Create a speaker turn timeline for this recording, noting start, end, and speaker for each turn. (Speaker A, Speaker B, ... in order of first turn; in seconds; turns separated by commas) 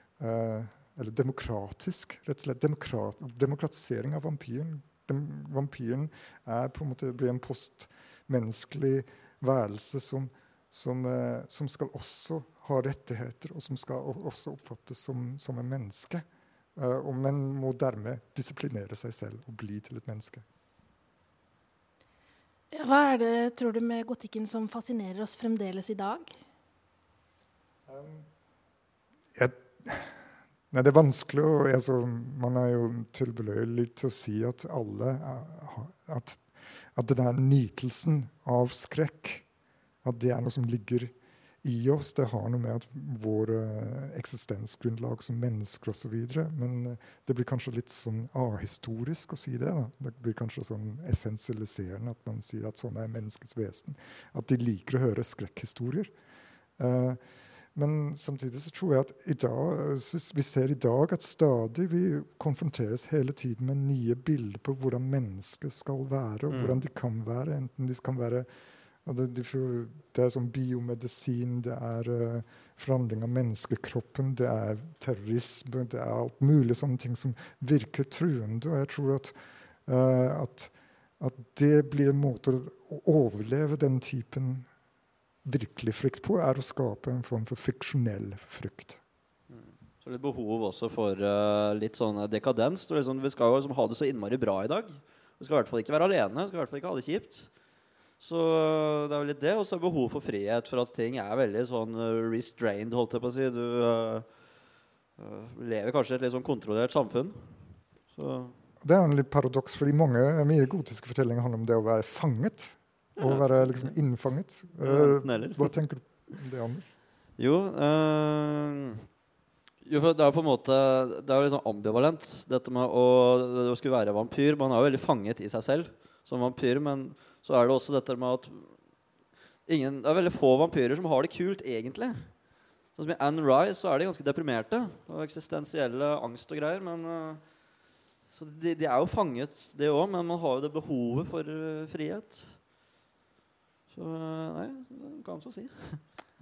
Speaker A: 0.2-16.2, Speaker A: 16.8-20.4, Speaker B: 22.7-26.3, Speaker A: 27.9-28.3, Speaker A: 29.3-39.5, Speaker A: 40.0-56.1, Speaker A: 56.8-68.5, Speaker C: 66.5-66.8, Speaker A: 69.0-84.7, Speaker A: 85.4-89.0, Speaker C: 89.5-97.5, Speaker C: 98.2-104.3, Speaker C: 105.2-108.6, Speaker A: 108.8-116.9, Speaker C: 113.2-113.9, Speaker C: 114.8-115.7, Speaker C: 117.4-119.0, Speaker C: 119.8-128.8, Speaker C: 129.7-132.4, Speaker C: 132.9-137.4, Speaker C: 138.2-142.6, Speaker C: 143.9-146.1